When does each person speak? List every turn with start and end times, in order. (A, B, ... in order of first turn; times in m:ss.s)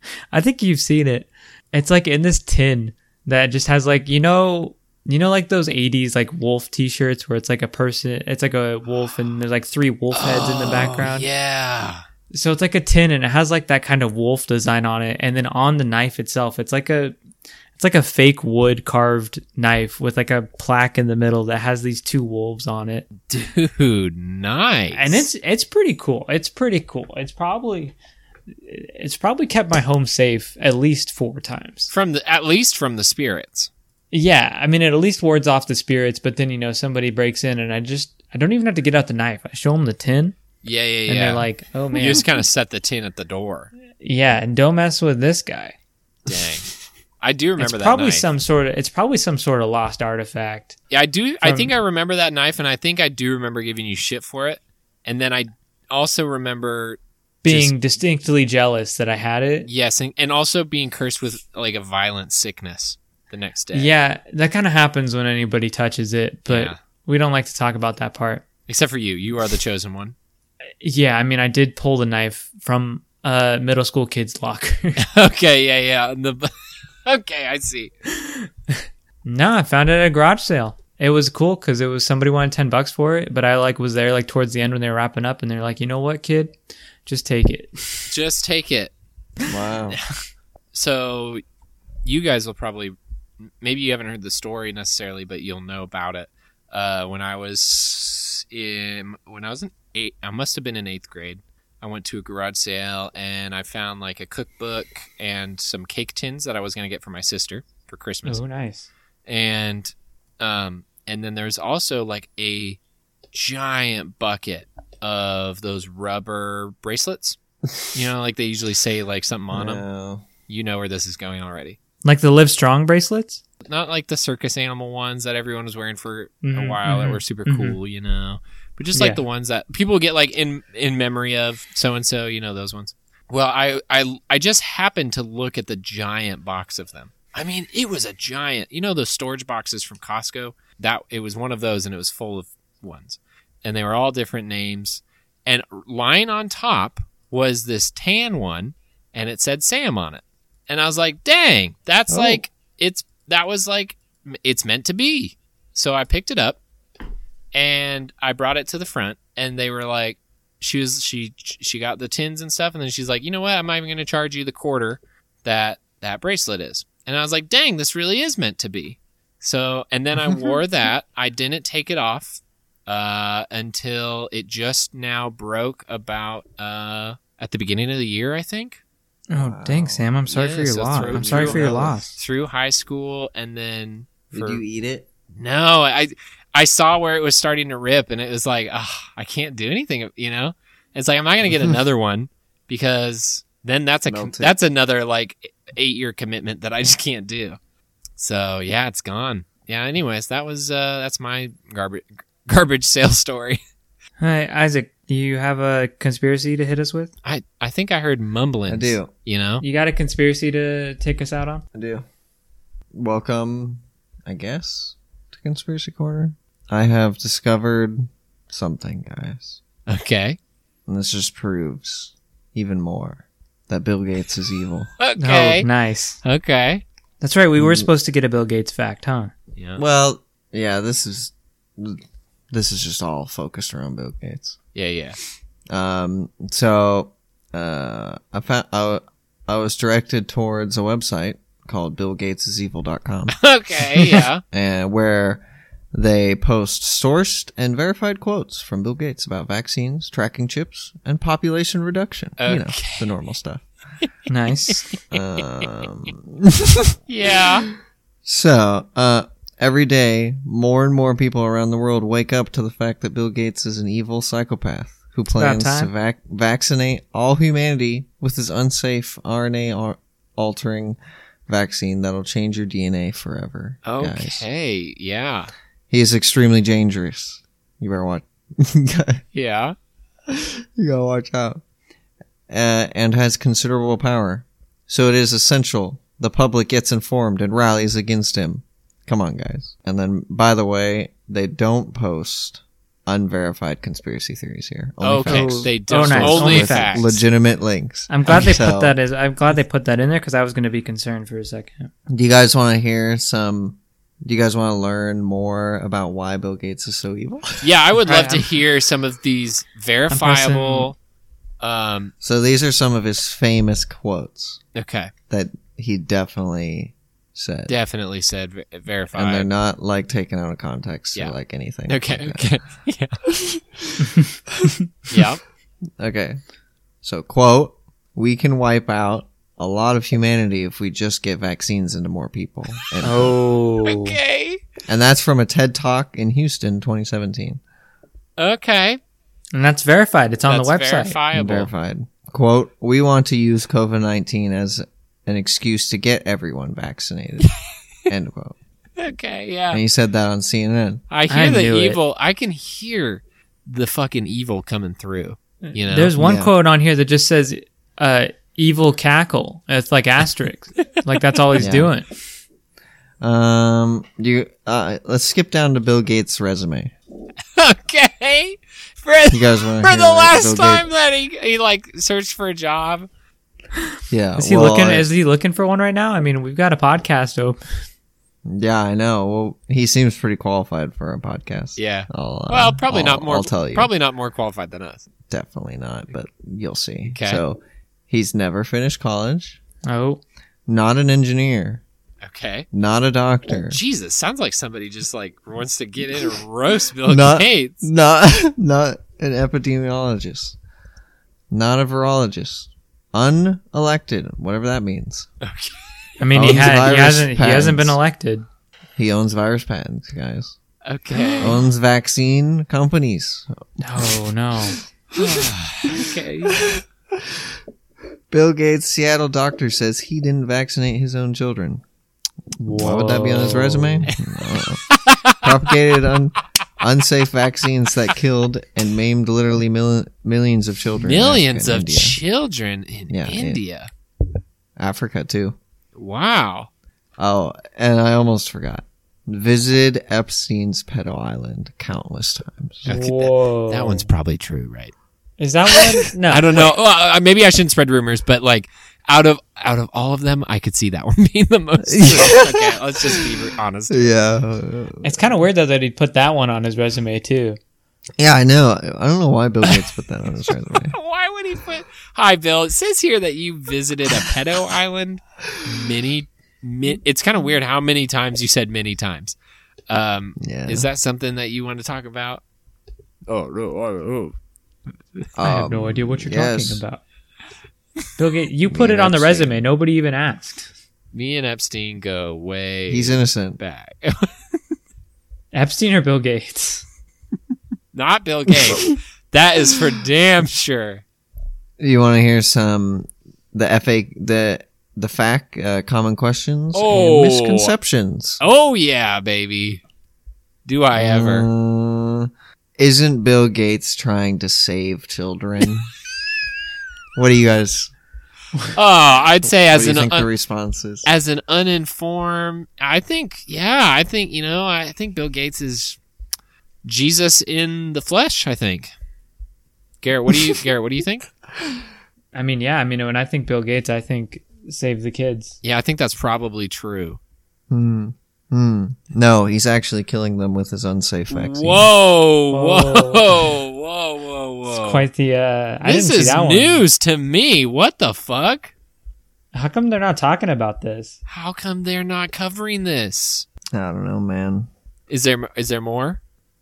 0:00.3-0:11.3 A
0:10.1-0:12.0 B
0:12.3-0:17.2 A
0:17.8-0:23.0 A
0:23.3-0:25.3 B
0:24.9-0:27.9 A
0:28.5-0:31.9 A
0:31.9-0:33.7 B
0:34.1-0:40.4 A
0:40.6-0:43.7 B
0:41.1-0:42.3 A
0:44.0-0:45.8 A
0:46.3-0:46.7 B
0:47.2-0:48.2 B
0:47.6-0:50.8 A
0:50.9-0:57.7 B
0:51.4-0:51.7 A
0:57.4-0:59.7 A
0:59.7-1:03.9 B
1:03.7-1:08.4 A
1:06.5-1:06.8 B
1:08.7-1:10.2 B
1:10.8-1:15.0 A
1:15.0-1:16.5 B
1:17.0-1:17.9 B
1:19.2-1:26.5 A
1:27.0-1:28.1 A
1:28.1-1:28.9 B
1:29.5-1:30.0 C
1:30.7-1:31.4 B
1:32.0-1:48.4 B
1:48.2-1:48.9 A
1:49.3-1:52.8 B
1:53.3-1:57.4 B
1:57.9-1:59.8 B
1:59.5-2:00.2 C
2:00.5-2:01.8 B
2:02.0-2:03.4 A
2:03.6-2:36.6 B
2:06.4-2:07.8 A
2:09.0-2:09.2 A
2:32.1-2:32.4 C
2:37.5-2:58.8 B
2:59.3-3:02.2 A
2:59.3-3:00.1 C
3:00.3-3:04.6 B
3:01.0-3:02.0 C
3:04.3-3:05.1 C
3:05.4-3:17.6 B
3:14.1-3:14.5 C
3:18.2-3:23.6 B
3:24.2-3:27.1 A
3:27.2-3:29.6 B
3:28.7-3:29.1 C
3:29.6-3:31.6 A
3:31.7-3:32.0 C
3:32.9-3:39.6 C
3:39.9-3:40.4 B
3:40.9-3:44.9 C
3:45.0-3:45.7 B
3:45.2-3:46.2 A
3:46.2-3:46.8 B
3:47.2-3:49.3 A
3:47.6-3:47.9 C
3:49.6-3:49.8 B
3:49.8-3:54.6 C
3:54.8-3:55.2 B
3:55.7-4:03.4 C
4:03.4-4:04.4 B
4:04.5-4:13.7 C
4:12.4-4:13.1 B
4:14.3-4:14.9 A
4:14.9-4:15.2 B
4:15.1-4:17.6 C
4:17.1-4:17.7 B
4:18.2-4:34.4 C
4:25.3-4:25.9 A
4:33.8-4:35.5 B
4:35.9-4:39.2 C
4:39.4-4:39.8 B
4:40.3-4:41.6 C
4:42.5-4:59.0 C
4:55.0-4:57.2 B
4:55.3-4:56.9 A
4:58.1-5:01.9 A
5:02.1-5:07.7 C
5:07.6-5:11.0 B
5:08.1-5:08.5 A
5:10.1-5:10.9 A
5:11.6-5:12.1 B
5:12.2-5:14.6 C
5:14.8-5:15.1 B
5:15.3-5:17.7 C
5:17.7-5:19.5 B
5:19.1-5:22.5 C
5:21.9-5:23.1 B
5:25.1-5:25.4 B
5:26.0-5:26.4 C
5:27.0-5:33.4 C
5:33.0-5:34.2 A
5:33.8-5:34.6 B
5:34.9-5:37.6 C
5:38.4-5:39.0 B
5:39.5-5:41.2 A
5:40.5-5:41.7 B
5:41.3-5:47.5 C
5:48.1-5:48.6 C
5:49.0-5:49.8 B
5:49.7-5:51.0 C
5:51.1-5:56.1 B
5:51.3-5:52.0 A
5:55.7-6:02.1 A
5:56.2-5:56.5 C
6:01.6-6:01.9 C
6:03.2-6:06.9 C
6:07.6-6:13.1 B
6:09.3-6:10.9 C
6:14.1-6:15.1 C
6:14.4-6:17.6 A
6:18.5-6:23.9 C
6:21.8-6:25.0 B
6:25.3-6:29.6 C
6:27.1-6:27.4 B
6:29.9-6:30.2 A
6:30.7-6:31.8 C
6:32.2-6:32.7 B
6:32.7-6:33.8 C
6:33.7-6:37.8 B
6:37.1-6:40.6 C
6:41.5-6:45.3 C
6:45.4-6:45.9 B
6:46.2-6:48.5 A
6:46.3-6:48.0 C
6:49.0-6:50.6 C
6:50.9-6:51.6 B
6:51.4-6:54.2 C
6:53.8-6:54.8 A
6:55.1-6:57.4 C
6:55.2-6:56.7 B
6:58.3-7:01.8 C
7:02.6-7:04.1 A
7:02.6-7:04.8 C
7:04.1-7:04.4 B
7:04.9-7:05.6 B
7:05.4-7:12.2 C
7:11.0-7:13.9 B
7:13.1-7:13.6 C
7:14.8-7:15.6 C
7:16.0-7:16.7 B
7:17.2-7:22.9 C
7:22.8-7:24.9 B
7:22.9-7:24.1 A
7:25.4-7:26.7 A
7:26.3-7:34.2 B
7:31.9-7:35.3 C
7:35.0-7:37.6 A
7:38.2-7:41.0 C
7:39.6-7:39.9 B
7:40.5-7:49.4 B
7:49.9-7:52.4 B
7:50.4-7:50.9 C
7:53.3-7:54.3 B
7:55.4-7:56.8 C
7:55.4-7:57.0 A
7:58.2-8:00.7 A
7:58.7-7:59.6 C
8:01.1-8:04.3 B
8:02.9-8:03.6 C
8:05.5-8:06.8 A
8:07.9-8:11.0 B
8:11.8-8:18.4 C
8:16.7-8:17.7 B
8:18.4-8:19.8 B
8:20.7-8:21.5 B
8:20.9-8:25.9 C
8:27.2-8:27.9 C
8:28.8-8:30.3 B
8:29.7-8:31.1 C
8:31.0-8:36.0 B
8:36.8-8:38.9 B
8:40.0-8:41.3 B
8:42.3-8:45.6 A
8:45.6-8:47.2 B
8:47.7-8:51.9 C
8:51.3-8:55.1 B
8:52.5-8:53.3 A
8:54.7-8:56.8 A
8:55.8-8:58.7 B
8:59.5-9:01.2 A
9:01.3-9:03.5 B
9:03.7-9:04.7 C
9:05.1-9:06.2 B